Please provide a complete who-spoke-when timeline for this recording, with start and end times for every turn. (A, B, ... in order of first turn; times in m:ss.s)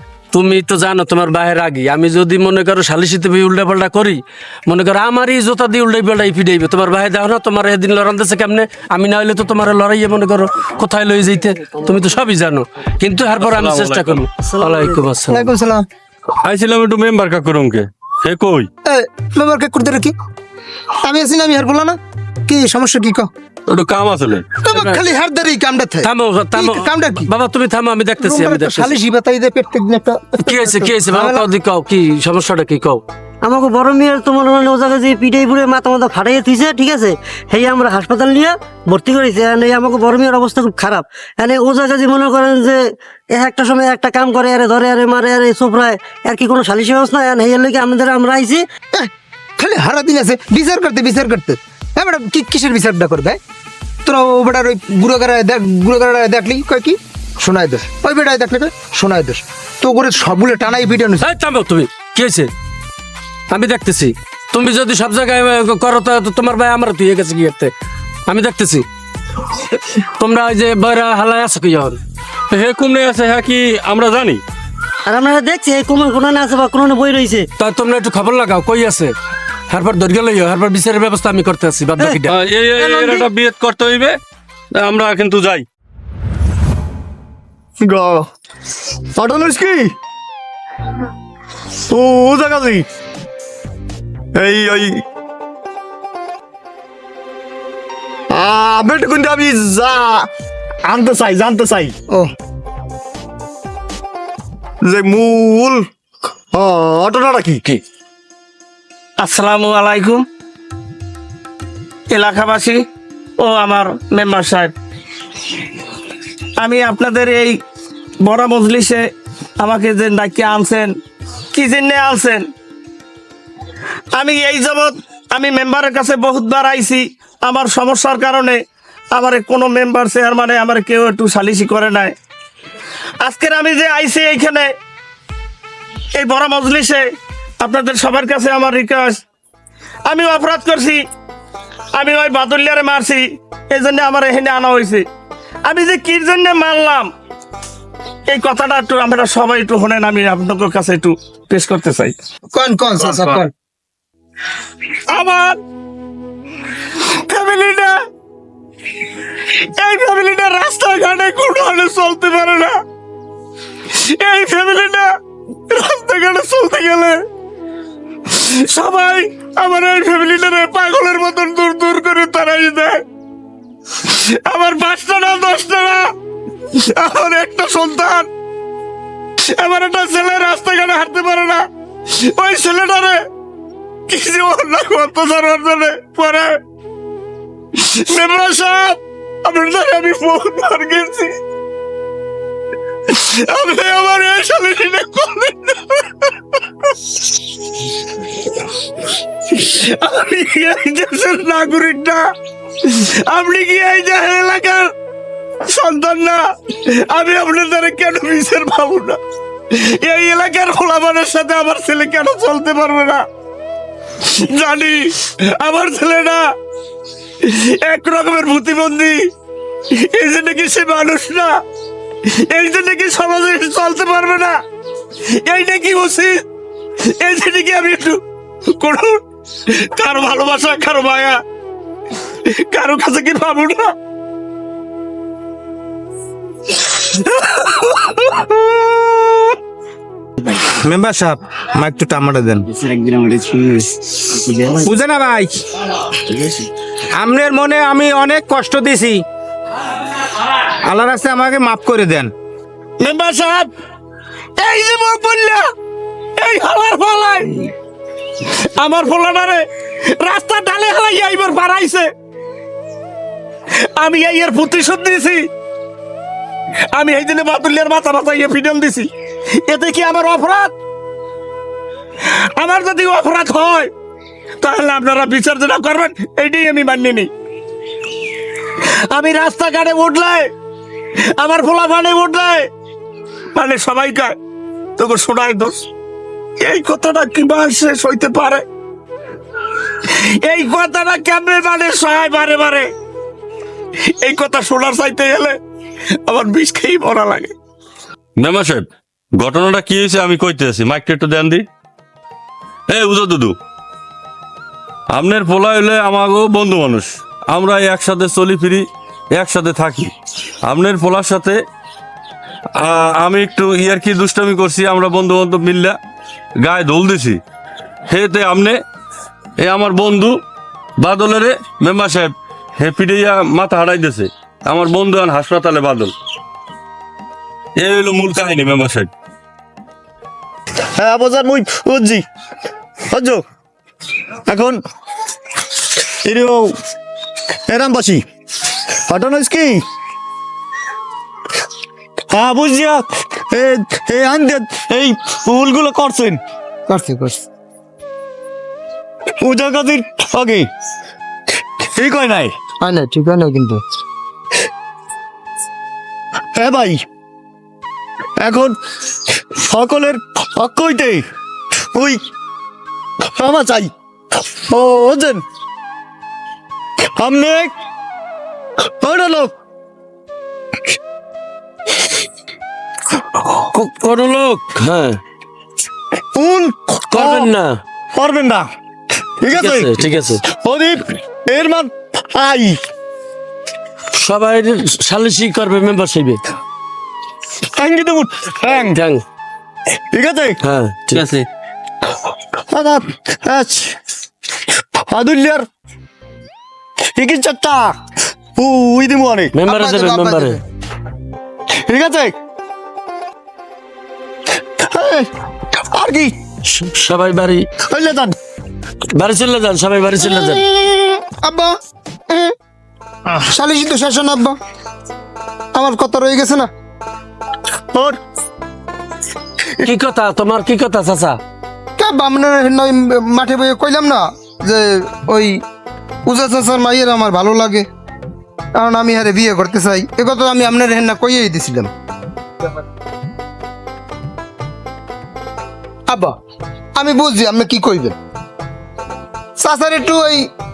0:00.3-0:15.5 A
0:13.4-0:14.2 B
0:15.3-0:15.8 C
0:16.4-0:18.7 B
0:18.8-0:20.1 C
0:21.0-0:23.3 C
0:23.7-0:24.5 B
0:24.6-0:27.3 C
0:24.7-0:25.0 A
0:26.0-0:29.0 A
0:28.2-0:31.4 C
0:30.4-0:33.0 A
0:33.4-0:48.6 D
0:48.9-0:53.4 C
0:54.0-1:01.3 C
1:01.2-1:02.5 A
1:03.5-1:07.7 A
1:08.2-1:08.8 A
1:09.5-1:12.0 A
1:12.5-1:14.4 B
1:15.0-1:17.5 D
1:17.6-1:19.1 A
1:19.7-1:23.0 A
1:22.2-1:24.2 B
1:23.0-1:23.2 D
1:24.7-1:25.6 B
1:27.8-1:28.2 E
1:29.2-1:29.9 E
1:31.9-1:32.8 E
1:34.3-1:35.0 E
1:38.3-1:40.3 E
1:40.8-1:41.9 E
1:44.8-1:45.8 E
1:46.5-1:47.8 E
1:49.2-1:50.1 F
1:52.1-1:52.7 F
1:53.4-1:54.7 F
1:56.6-1:57.5 F
1:58.2-1:59.0 F
1:59.6-2:00.9 F
2:01.5-2:02.4 F
2:04.2-2:08.6 F
2:09.2-2:12.1 F
2:13.2-2:14.6 F
2:16.2-2:17.0 F
2:17.6-2:19.2 F
2:20.1-2:21.0 F
2:22.0-2:23.1 F
2:23.7-2:24.3 F
2:25.7-2:26.9 F
2:28.3-2:28.6 F
2:30.3-2:31.1 F
2:32.5-2:33.5 C
2:35.1-2:35.6 F
2:37.3-2:37.9 F
2:39.8-2:42.7 F
2:44.0-2:45.1 F
2:45.7-2:47.2 F
2:48.3-2:53.0 F
2:54.1-2:56.0 F
2:56.8-2:58.3 F
2:59.5-3:03.2 F
3:04.1-3:06.5 F
3:07.8-3:11.4 F
3:13.1-3:16.0 F
3:19.5-3:22.2 F
3:22.9-3:24.9 F
3:25.7-3:26.4 F
3:27.1-3:29.2 F
3:29.8-3:33.2 F
3:34.3-3:36.4 F
3:37.4-3:39.2 F
3:40.1-3:41.5 F
3:42.3-3:44.6 F
3:45.4-3:46.4 F
3:47.2-3:48.2 F
3:48.8-3:51.4 F
3:52.7-3:53.9 F
4:00.8-4:02.7 G
4:04.8-4:05.6 G
4:07.2-4:09.2 G
4:10.8-4:12.3 G
4:13.0-4:13.7 F
4:14.6-4:15.6 F
4:16.4-4:17.5 F
4:18.8-4:19.6 F
4:20.2-4:22.1 F
4:24.0-4:25.4 F
4:26.9-4:29.1 F
4:29.7-4:30.5 F
4:32.6-4:33.9 F
4:34.6-4:37.3 F
4:39.1-4:40.4 F
4:41.4-4:42.6 F
4:43.6-4:44.4 F
4:45.0-4:45.8 F
4:46.6-4:48.6 F
4:50.4-4:52.8 F
4:54.2-4:55.6 F
4:56.3-4:57.5 F
4:58.4-5:01.6 B
5:02.9-5:03.6 B
5:05.1-5:10.1 B
5:10.6-5:11.6 B
5:12.8-5:16.0 B
5:16.6-5:17.4 B
5:18.1-5:18.8 B
5:19.6-5:20.4 B
5:21.0-5:26.1 B
5:27.8-5:29.1 B
5:30.9-5:32.2 E
5:33.1-5:33.4 E
5:34.5-5:34.8 E
5:36.2-5:36.7 E
5:37.7-5:38.2 E
5:39.1-5:39.8 E
5:42.3-5:46.4 E
5:46.9-5:47.4 C
5:49.4-5:50.7 E
5:51.8-5:52.5 E
5:52.8-5:53.8 C
5:56.5-5:57.0 E
5:58.4-5:58.8 E
5:59.3-6:01.2 E
6:01.9-6:02.2 E
6:03.3-6:05.4 E
6:07.2-6:07.7 E
6:09.0-6:09.5 E
6:13.7-6:15.2 A
6:16.3-6:17.6 E
6:17.1-6:17.8 A
6:18.1-6:18.7 E
6:19.4-6:22.8 E
6:19.5-6:20.4 A
6:24.1-6:26.4 A
6:27.7-6:29.0 E
6:28.8-6:29.2 A
6:30.1-6:30.6 E
6:30.6-6:31.3 A
6:32.7-6:34.0 E
6:34.7-6:35.7 E
6:37.1-6:38.0 E
6:38.6-6:39.6 E
6:39.5-6:40.6 A
6:39.6-6:40.6 C
6:41.8-6:42.3 E
6:44.8-6:46.4 E
6:46.7-6:47.7 A
6:47.9-6:48.3 E
6:49.1-6:50.9 A
6:51.3-6:51.8 C
6:53.5-6:54.6 C
6:55.7-6:56.7 C
6:59.8-7:01.4 A
7:02.0-7:05.6 C
7:06.2-7:07.9 C
7:08.8-7:11.9 C
7:16.1-7:16.4 C
7:17.0-7:18.2 C
7:19.6-7:20.5 C